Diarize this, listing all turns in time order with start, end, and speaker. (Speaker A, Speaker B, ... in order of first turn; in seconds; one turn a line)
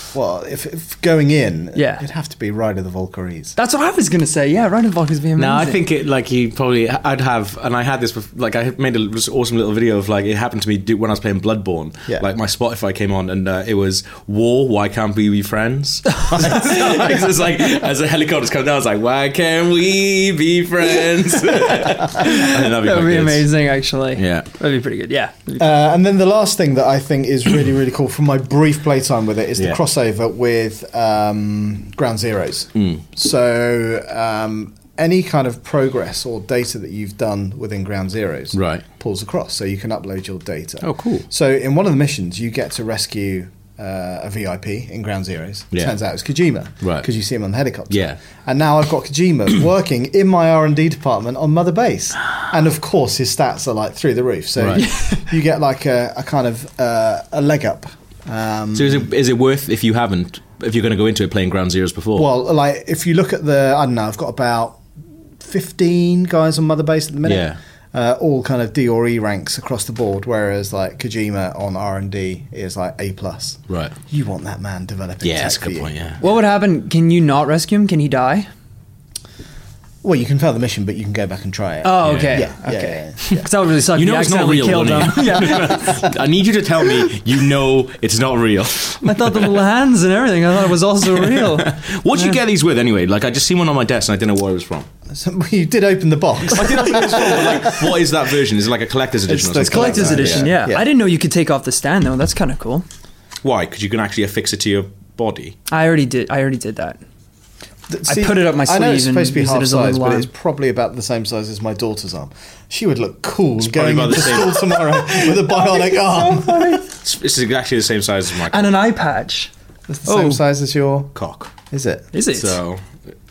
Speaker A: 0.1-3.5
Speaker B: 1.8-2.0
Speaker B: 3.6-5.8
Speaker C: 5.4-23.5
Speaker B: 22.1-25.6
Speaker C: 24.1-24.5
Speaker A: 25.6-59.1
Speaker C: 32.8-33.0
Speaker C: 38.5-38.8
Speaker C: 40.8-41.2
Speaker C: 46.8-47.1
Speaker C: 47.9-48.2
Speaker C: 54.6-54.9
Speaker B: 54.8-55.2
Speaker C: 58.8-62.3
Speaker A: 62.1-64.8
Speaker A: 65.4-76.2
Speaker C: 67.2-67.6
Speaker C: 73.7-74.0
Speaker C: 75.2-76.2
Speaker B: 76.2-78.5
Speaker A: 80.0-83.5
Speaker B: 81.8-86.0
Speaker C: 82.0-82.5
Speaker C: 83.2-89.6
Speaker A: 85.7-86.1
Speaker B: 89.0-92.4
Speaker C: 91.2-94.9
Speaker A: 95.1-98.0
Speaker C: 96.5-100.6
Speaker A: 99.3-100.8
Speaker B: 99.6-102.8
Speaker C: 103.4-105.5
Speaker B: 105.7-107.0
Speaker A: 107.9-116.8
Speaker B: 108.0-110.3
Speaker C: 113.6-115.0
Speaker B: 115.1-116.9
Speaker C: 116.9-118.8
Speaker B: 118.5-119.5
Speaker A: 119.9-121.1
Speaker B: 120.1-120.4
Speaker C: 121.1-121.5
Speaker A: 121.7-122.1
Speaker B: 122.1-122.5
Speaker C: 122.3-122.8